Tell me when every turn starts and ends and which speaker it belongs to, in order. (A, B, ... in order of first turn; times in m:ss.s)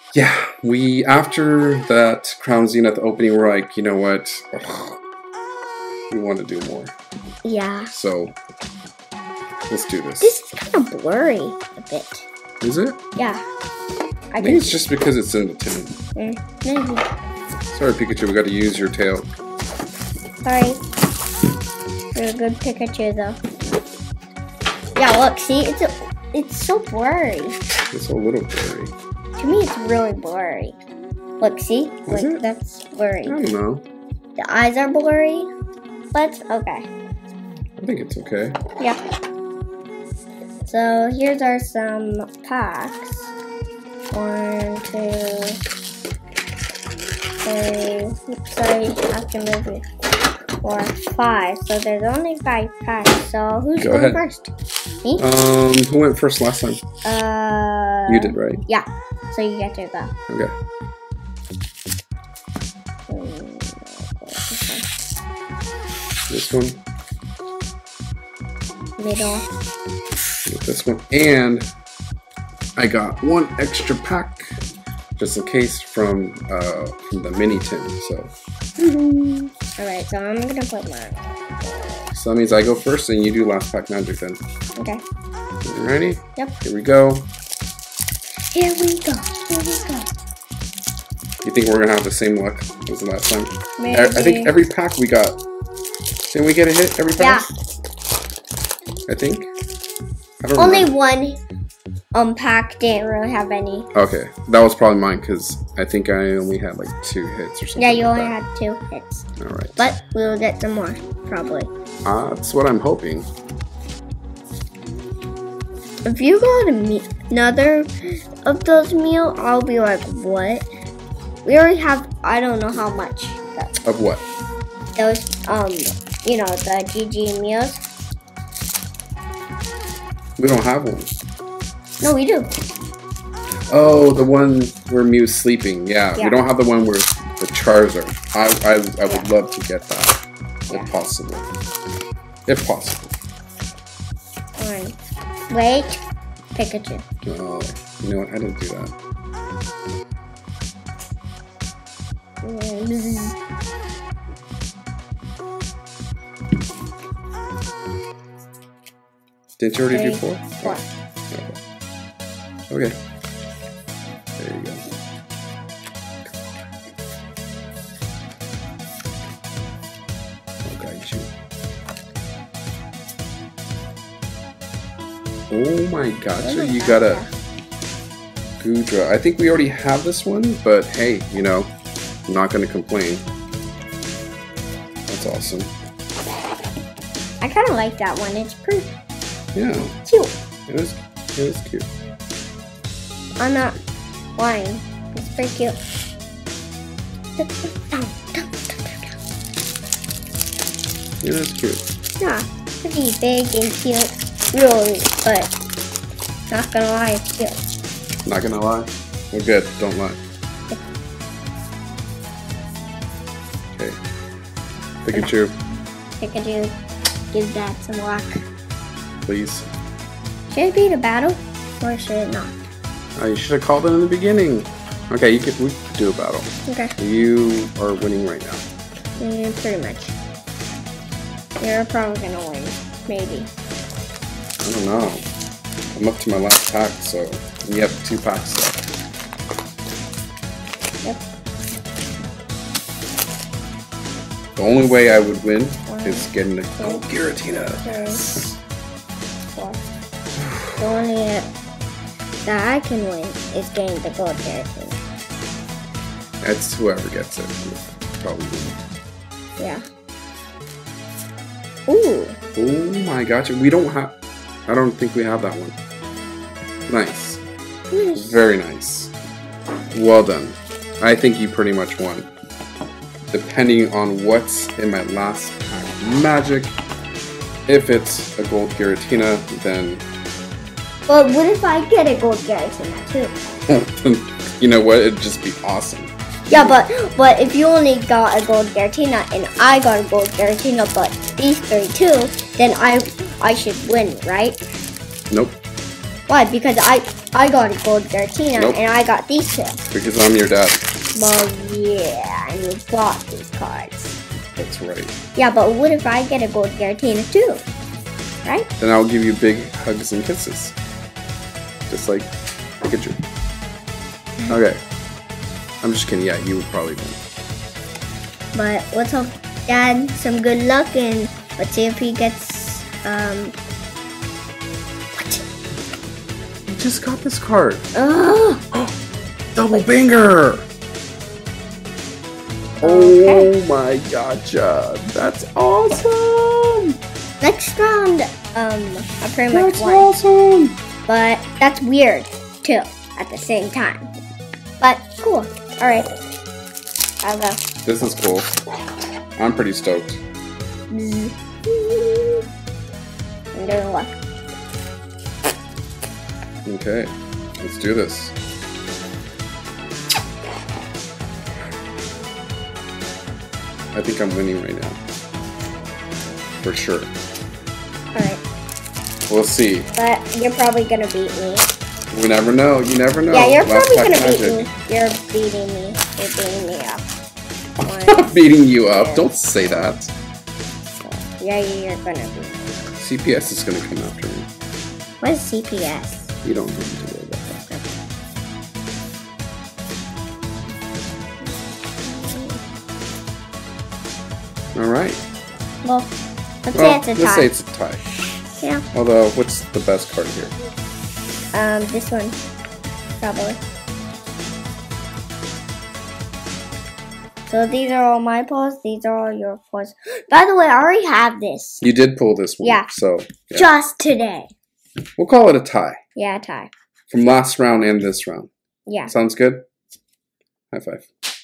0:00.1-0:05.0 A
0:06.1-0:07.0 A
0:07.4-0:07.9 B
0:07.9-0:08.4 A
0:09.7-0:10.3 A
0:10.2-0:12.3 B
0:12.6-0:13.0 A
0:13.2-0:13.4 B
0:14.3-0:14.8 B
0:14.4-0:16.0 A
0:16.2-0:17.1 B
0:17.7-0:19.3 A
0:20.4-0:20.8 B
0:22.2-0:23.4 B
0:25.0-0:27.6 B
0:27.9-0:28.9 A
0:29.4-0:30.8 B
0:31.4-0:33.4 B
0:32.1-0:32.4 A
0:33.3-0:33.8 A
0:34.4-0:35.5 B
0:36.1-0:36.9 B
0:37.8-0:38.6 A
0:40.7-0:43.3 B
0:44.1-0:45.6 B
0:47.4-0:49.8 B
0:50.6-0:54.5 B
0:53.8-0:54.2 A
0:55.2-0:56.8 A
0:57.0-1:00.1 B
0:58.1-0:58.6 A
1:03.1-1:04.8 B
1:06.3-1:06.8 A
1:09.0-1:09.5 B
1:10.5-1:11.7 A
1:12.8-1:14.6 A
1:15.2-1:18.3 A
1:18.8-1:22.1 B
1:22.1-1:24.4 A
1:24.8-1:25.0 B
1:25.6-1:27.3 A
1:28.5-1:30.1 B
1:31.4-1:35.4 A
1:33.8-1:34.6 B
1:36.3-1:37.5 A
1:37.2-1:37.5 B
1:39.1-1:39.5 A
1:40.4-1:40.9 A
1:40.6-1:41.4 B
1:42.1-1:43.9 B
1:43.9-1:48.4 A
1:47.8-1:51.7 B
1:49.4-1:49.9 A
1:52.0-1:53.3 A
1:56.0-1:57.9 B
1:58.4-2:00.7 B
2:01.4-2:03.8 B
2:03.8-2:04.2 A
2:05.0-2:07.8 B
2:10.4-2:11.1 A
2:12.0-2:12.5 B
2:13.7-2:21.5 A
2:22.5-2:23.1 A
2:24.6-2:25.0 B
2:25.5-2:26.0 B
2:26.5-2:27.0 B
2:27.2-2:28.9 A
2:32.4-2:33.4 B
2:39.6-2:41.6 A
2:39.9-2:40.8 B
2:42.7-2:43.0 A
2:44.4-2:44.8 A
2:50.6-2:51.3 A
2:55.5-2:57.2 A
2:56.4-2:57.3 B
2:58.6-3:01.7 A
3:02.3-3:03.3 A
3:05.1-3:05.7 A
3:07.4-3:08.9 B
3:09.6-3:10.0 A
3:10.0-3:10.3 B
3:10.7-3:11.9 A
3:13.4-3:13.8 B
3:14.4-3:15.8 B
3:17.4-3:19.2 B
3:21.2-3:21.8 A
3:22.2-3:25.5 B
3:26.5-3:27.6 B
3:28.2-3:30.2 A
3:35.0-3:35.6 A
3:36.2-3:36.8 B
3:37.3-3:38.4 B
3:39.2-3:39.7 A
3:40.5-3:42.6 B
3:43.2-3:48.6 A
3:46.7-3:46.9 B
3:49.2-3:50.2 B
3:51.6-3:53.5 B
3:54.6-3:55.2 A
3:56.0-3:58.8 A
4:04.6-4:08.6 A
4:05.9-4:07.1 B
4:07.7-4:08.3 B
4:09.6-4:09.8 B
4:10.4-4:10.8 A
4:10.8-4:11.5 B
4:12.4-4:15.0 B
4:16.4-4:18.8 A
4:19.6-4:19.8 B
4:21.9-4:22.4 B
4:22.6-4:24.2 A
4:24.7-4:25.8 A
4:26.9-4:27.4 A
4:27.9-4:28.4 B
4:28.2-4:29.1 A
4:29.9-4:32.3 A
4:33.3-4:36.8 A
4:37.7-4:40.0 A
4:41.1-4:43.3 B
4:43.7-4:46.8 A
4:46.5-4:54.6 B
4:55.3-4:55.6 A
4:56.3-4:59.8 B
4:58.6-4:58.8 A
4:59.9-5:00.8 A
5:01.2-5:04.2 B
5:04.6-5:05.1 A
5:05.4-5:07.6 B
5:08.8-5:10.8 A
5:11.9-5:13.2 A
5:14.5-5:14.8 A
5:15.8-5:17.2 A
5:18.5-5:23.6 B
5:25.2-5:25.4 B
5:26.7-5:27.9 A
5:28.0-5:28.6 B
5:29.6-5:30.7 A
5:32.8-5:37.0 A
5:32.8-5:33.5 B
5:37.4-5:40.1 B
5:39.5-5:40.8 A
5:41.1-5:44.1 B
5:44.8-5:46.1 B
5:47.2-5:47.6 B
5:47.8-5:48.5 A
5:49.4-5:50.2 A
5:50.9-5:52.4 B
5:53.6-5:54.2 B
5:56.6-5:58.4 A
6:03.9-6:05.0 A
6:06.6-6:07.1 A
6:08.1-6:08.4 B
6:09.3-6:09.9 A
6:10.0-6:11.7 B
6:12.1-6:14.7 A
6:13.3-6:17.1 B
6:17.8-6:19.3 B
6:17.8-6:20.1 A
6:21.0-6:22.8 B
6:23.0-6:24.5 A
6:25.2-6:26.3 B
6:26.4-6:27.6 A
6:27.6-6:27.9 B
6:31.4-6:32.6 B
6:34.7-6:35.2 A
6:35.8-6:36.1 B
6:36.6-6:37.5 B
6:36.7-6:38.1 A
6:38.6-6:38.8 B
6:38.9-6:40.6 A
6:41.5-6:42.4 B
6:43.2-6:43.6 B
6:47.5-6:51.8 B
6:51.8-6:53.7 A
6:52.6-6:52.9 B
6:53.5-6:54.5 B
6:55.2-6:56.0 A
6:56.2-6:56.7 B
6:57.1-6:58.5 A
6:58.9-6:59.1 B
6:59.1-6:59.6 A
7:00.7-7:01.1 A